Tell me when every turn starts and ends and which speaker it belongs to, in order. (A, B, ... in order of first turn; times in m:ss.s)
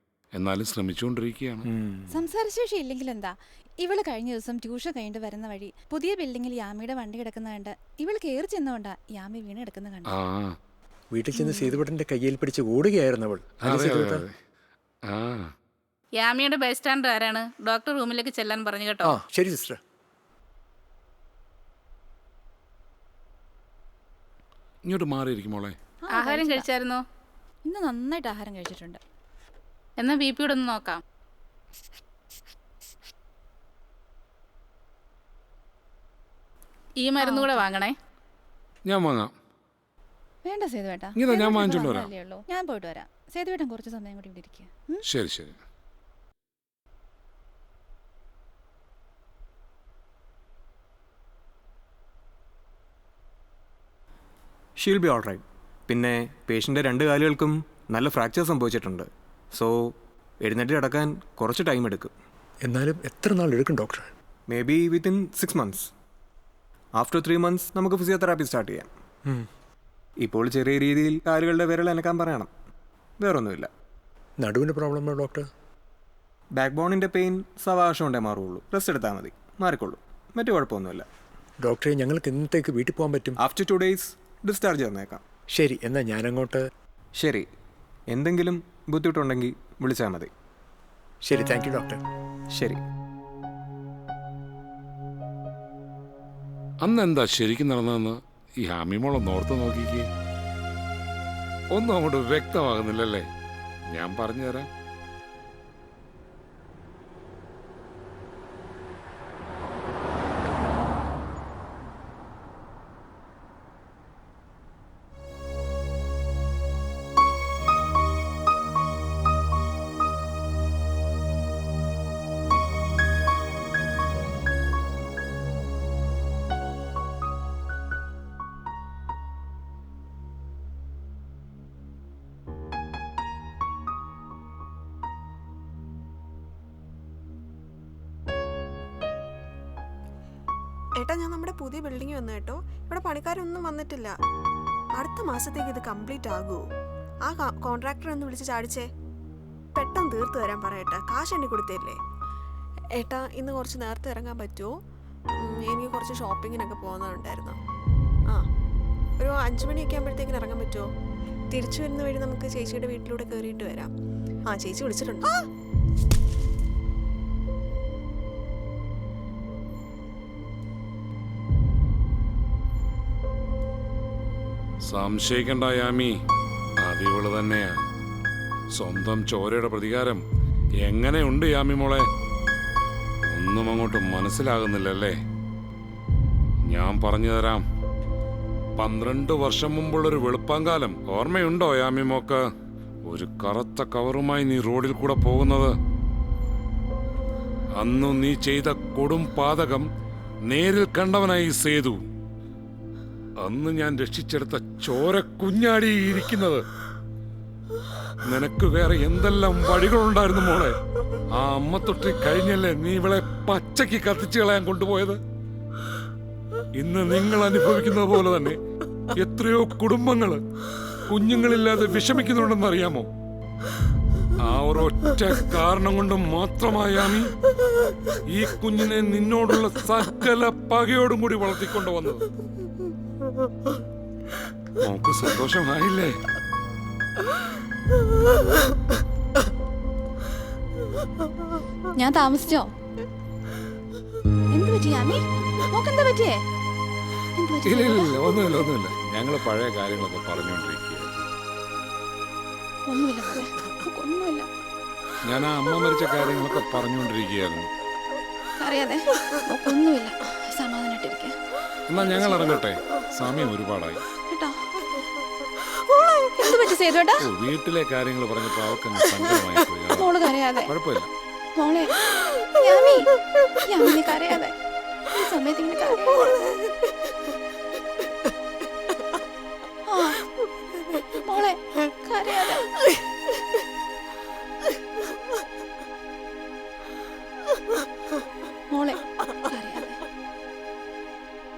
0:00.3-0:01.6 A
0:01.7-0:02.2 B
0:02.1-0:10.1 C
0:10.1-0:10.6 A
0:11.1-0:14.2 B
0:11.4-0:11.7 C
0:13.6-0:14.3 A
0:15.1-0:15.5 A
0:16.2-0:19.2 D
0:19.0-0:19.8 B
0:24.9-0:25.8 A
0:26.1-0:26.7 C
0:26.1-0:27.0 D
0:27.6-0:29.0 C
0:30.0-0:31.0 D
0:37.0-0:37.9 D
0:37.2-0:37.6 C
0:38.9-0:39.3 A
0:40.4-0:45.0 C
0:41.2-0:42.1 A
0:45.0-0:45.6 A
0:54.8-1:02.1 E
1:02.6-1:04.1 B
1:04.5-1:05.9 E
1:07.0-1:09.5 E
1:10.2-1:12.5 E
1:13.2-1:13.7 E
1:14.4-1:15.5 B
1:16.5-1:21.0 E
1:21.6-1:23.4 B
1:23.4-1:25.2 E
1:25.5-1:26.6 B
1:27.2-1:27.5 E
1:28.1-1:30.3 E
1:31.2-1:32.0 B
1:32.5-1:32.8 E
1:36.8-1:40.1 A
1:41.7-1:43.2 A
1:43.9-1:44.7 A
2:21.0-2:24.2 F
2:25.0-2:26.6 F
2:27.2-2:28.9 F
2:29.7-2:32.0 F
2:33.0-2:34.7 F
2:35.4-2:37.6 F
2:39.2-2:40.9 F
2:41.5-2:43.9 F
2:44.5-2:45.4 F
2:54.9-2:56.1 A
2:56.8-2:57.8 A
2:58.7-3:00.2 A
3:00.8-3:02.1 A
3:03.3-3:05.2 A
3:06.7-3:07.6 A
3:08.8-3:12.4 A
3:13.1-3:15.7 A
3:17.8-3:19.9 A
3:20.5-3:22.0 A
3:23.4-3:26.6 A
3:28.3-3:30.8 A
3:31.3-3:35.2 A
3:36.8-3:38.6 A
3:39.2-3:40.4 A
3:41.1-3:43.1 A
3:44.4-3:47.3 A
3:48.3-3:52.3 A
3:54.8-3:56.1 A
4:02.0-4:02.7 C
4:04.5-4:06.4 C
4:07.4-4:08.6 C
4:07.6-4:11.2 A
4:12.9-4:14.5 C
4:15.2-4:17.7 A
4:18.6-4:21.4 C
4:21.9-4:24.0 A
4:21.9-4:22.6 C
4:24.3-4:24.7 C
4:26.4-4:27.2 C
4:27.2-4:30.1 A
4:29.9-4:30.7 C
4:30.7-4:31.1 A
4:31.6-4:34.6 C
4:35.1-4:36.4 C
4:39.9-4:40.2 C
4:41.2-4:42.7 C
4:48.7-4:50.0 C